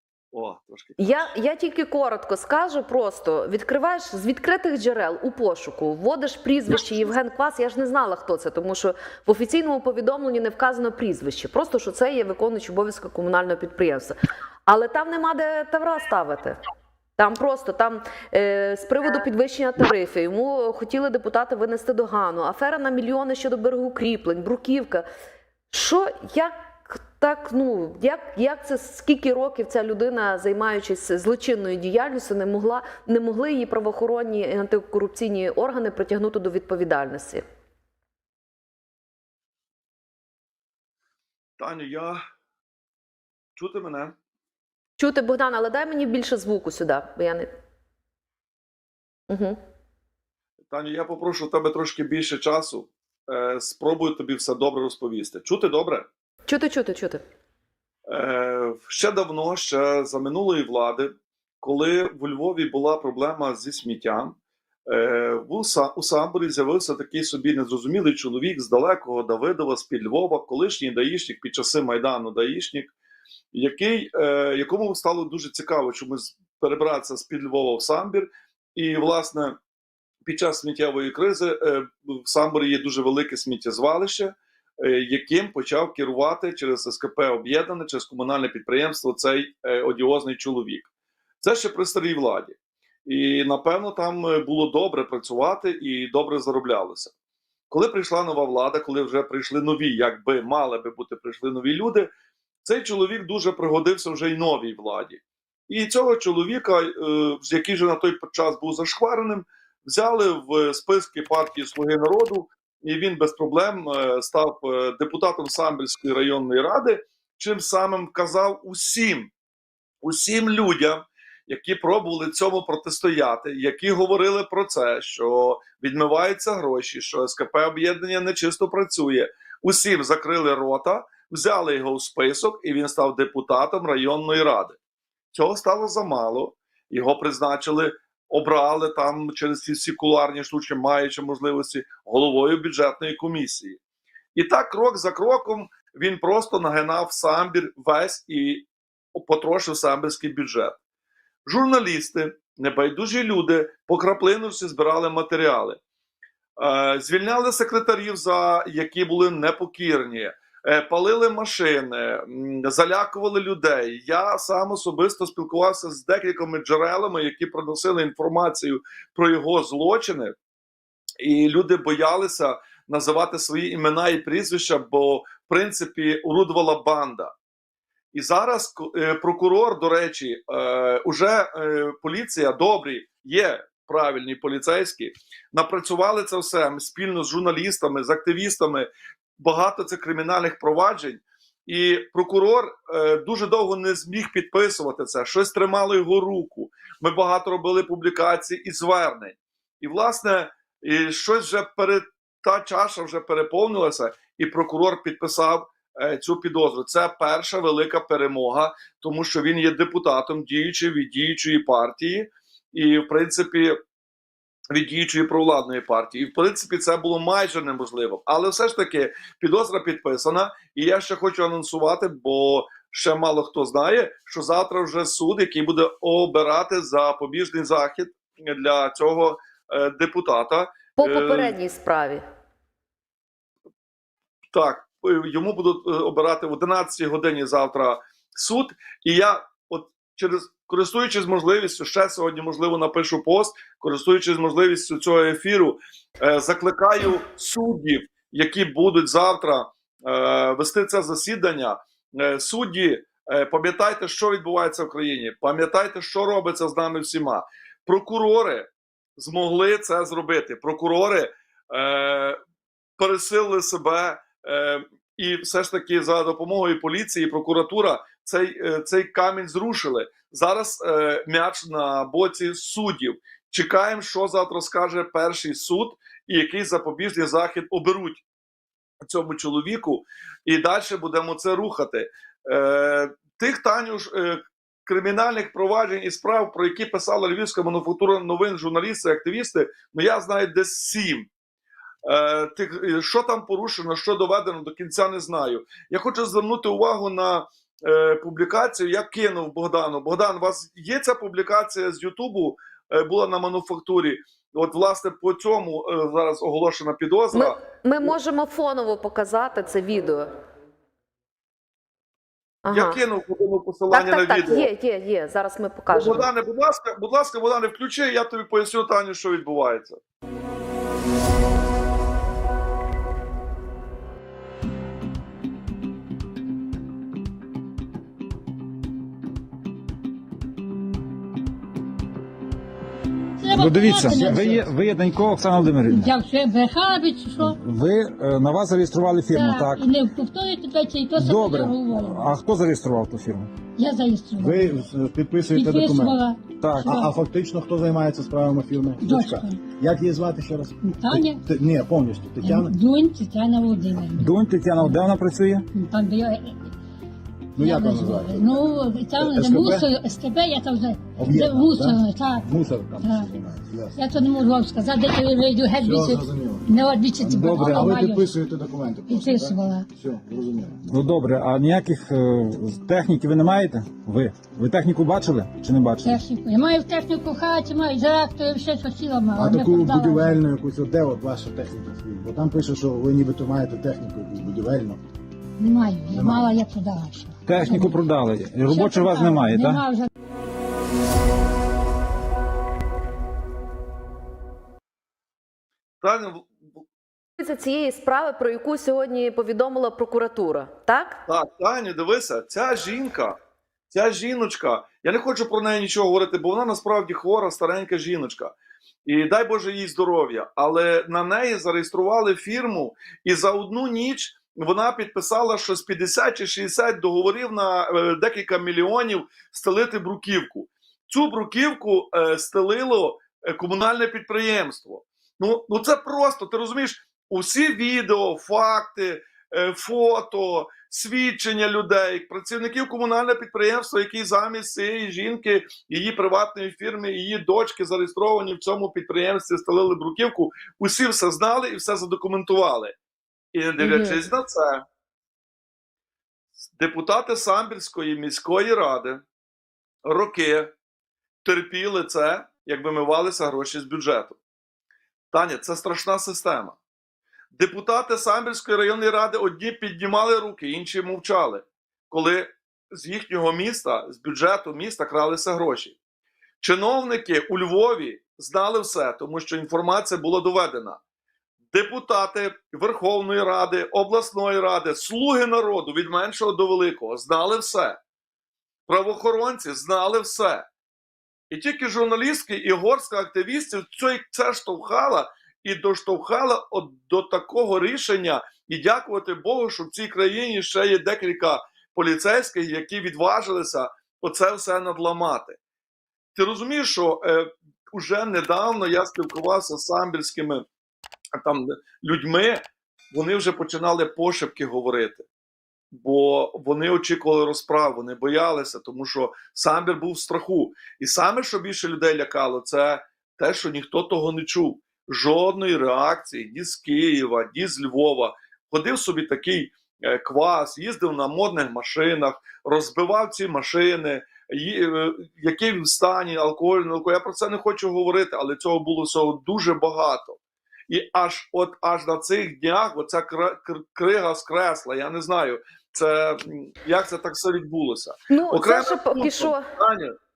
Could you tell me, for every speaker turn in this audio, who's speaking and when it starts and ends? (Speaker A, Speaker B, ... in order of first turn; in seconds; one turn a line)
Speaker A: 0.3-1.1
Speaker B: 1.0-14.1
Speaker B: 14.7-16.6
Speaker B: 17.2-25.1
Speaker B: 25.7-37.4
Speaker A: 41.6-42.2
Speaker A: 43.6-44.1
Speaker B: 45.0-47.5
Speaker B: 49.3-49.6
Speaker A: 50.7-56.1
Speaker B: 56.5-57.2
Speaker A: 58.1-61.1
Speaker A: 61.6-64.3
Speaker A: 64.9-72.9
Speaker A: 73.5-79.6
Speaker A: 80.2-97.1
Speaker A: 97.7-102.1
Speaker A: 102.6-119.3
Speaker A: 120.0-134.8
Speaker A: 135.3-143.8
Speaker A: 144.3-150.8
Speaker A: 151.4-155.8
Speaker A: 156.6-170.3
Speaker A: 171.2-177.3
Speaker A: 178.1-213.8
Speaker A: 214.7-231.6
Speaker B: 231.0-232.2
Speaker A: 234.5-262.4
Speaker A: 263.0-278.2
Speaker A: 279.0-291.3
Speaker A: 292.0-308.1
Speaker B: 307.3-310.3
Speaker B: 312.6-313.0
Speaker A: 312.7-314.7
Speaker B: 313.9-316.3
Speaker A: 315.9-320.0
Speaker C: 333.4-334.7
Speaker D: 333.5-336.1
Speaker C: 335.8-337.6
Speaker D: 337.4-339.9
Speaker C: 339.3-342.3
Speaker D: 341.1-343.5
Speaker C: 343.8-344.7
Speaker E: 344.4-346.2
Speaker C: 345.5-347.1
Speaker D: 346.6-346.9
Speaker E: 346.8-352.8
Speaker C: 349.0-349.6
Speaker C: 350.8-351.4
Speaker C: 352.4-354.3
Speaker D: 354.1-355.6
Speaker C: 355.7-356.5
Speaker E: 357.6-359.9
Speaker C: 357.6-362.5
Speaker E: 361.1-364.0
Speaker C: 363.0-363.3
Speaker C: 363.9-368.3
Speaker E: 365.8-370.8
Speaker D: 367.4-367.9
Speaker C: 369.1-369.9
Speaker D: 370.9-376.2
Speaker C: 376.0-380.4
Speaker E: 379.3-385.0
Speaker C: 385.6-388.0
Speaker E: 386.1-386.5
Speaker D: 387.4-389.8
Speaker C: 388.5-390.1
Speaker A: 396.0-396.6
Speaker B: 397.4-401.2
Speaker A: 401.3-403.4
Speaker A: 403.9-408.5
Speaker A: 409.1-442.9
Speaker A: 443.5-444.8
Speaker B: 443.8-444.2
Speaker A: 446.7-449.2
Speaker A: 450.0-450.7
Speaker A: 451.4-454.4
Speaker A: 455.3-456.8
Speaker A: 457.5-466.0
Speaker A: 466.6-471.0
Speaker A: 471.7-478.0
Speaker A: 478.9-480.7
Speaker A: 481.5-495.6
Speaker A: 496.3-500.6
Speaker A: 501.4-505.2
Speaker A: 505.9-540.1
Speaker B: 538.3-539.6